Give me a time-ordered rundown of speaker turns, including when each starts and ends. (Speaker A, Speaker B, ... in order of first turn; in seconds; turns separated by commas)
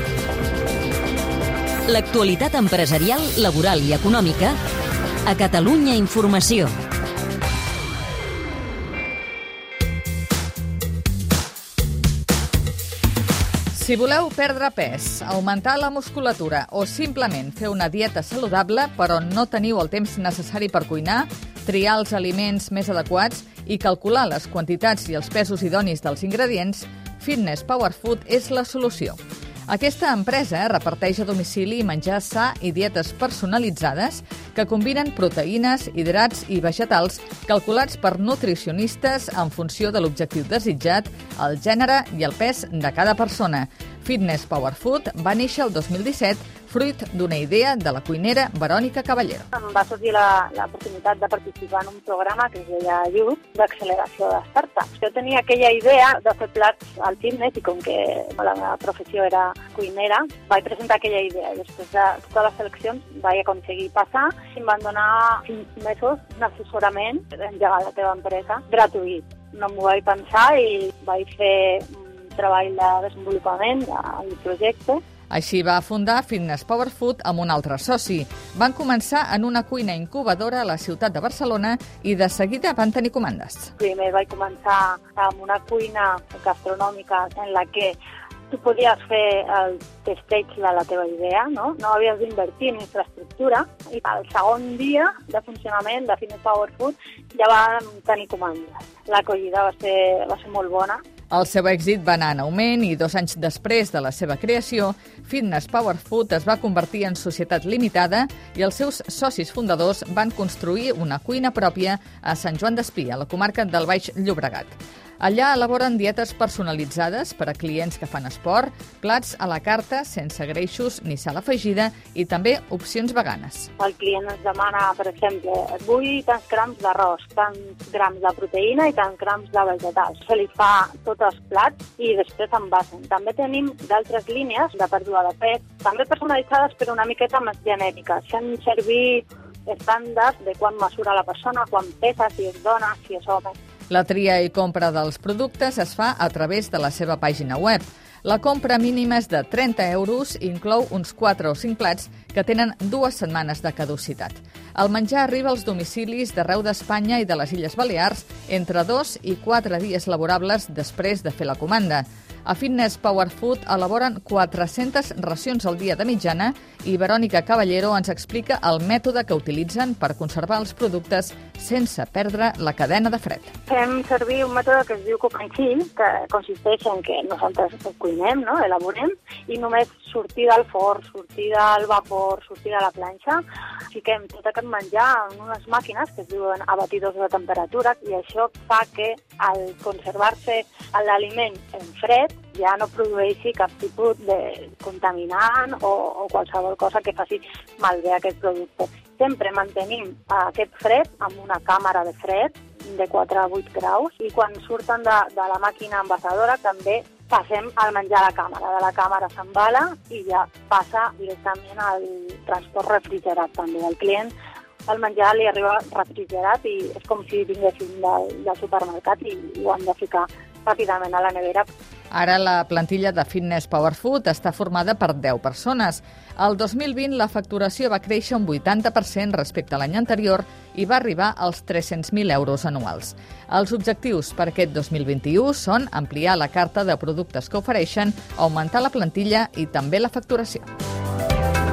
Speaker A: 1.9-4.6, Speaker A: 5.2-6.7, Speaker B: 13.7-49.5, Speaker C: 49.5-75.0, Speaker B: 75.3-83.7, Speaker C: 83.8-88.0, Speaker C: 88.5-101.0, Speaker B: 101.3-123.7, Speaker C: 123.8-143.5, Speaker B: 143.9-173.5, Speaker C: 173.7-183.4, Speaker C: 183.9-214.3, Speaker C: 214.8-221.7, Speaker B: 222.1-240.7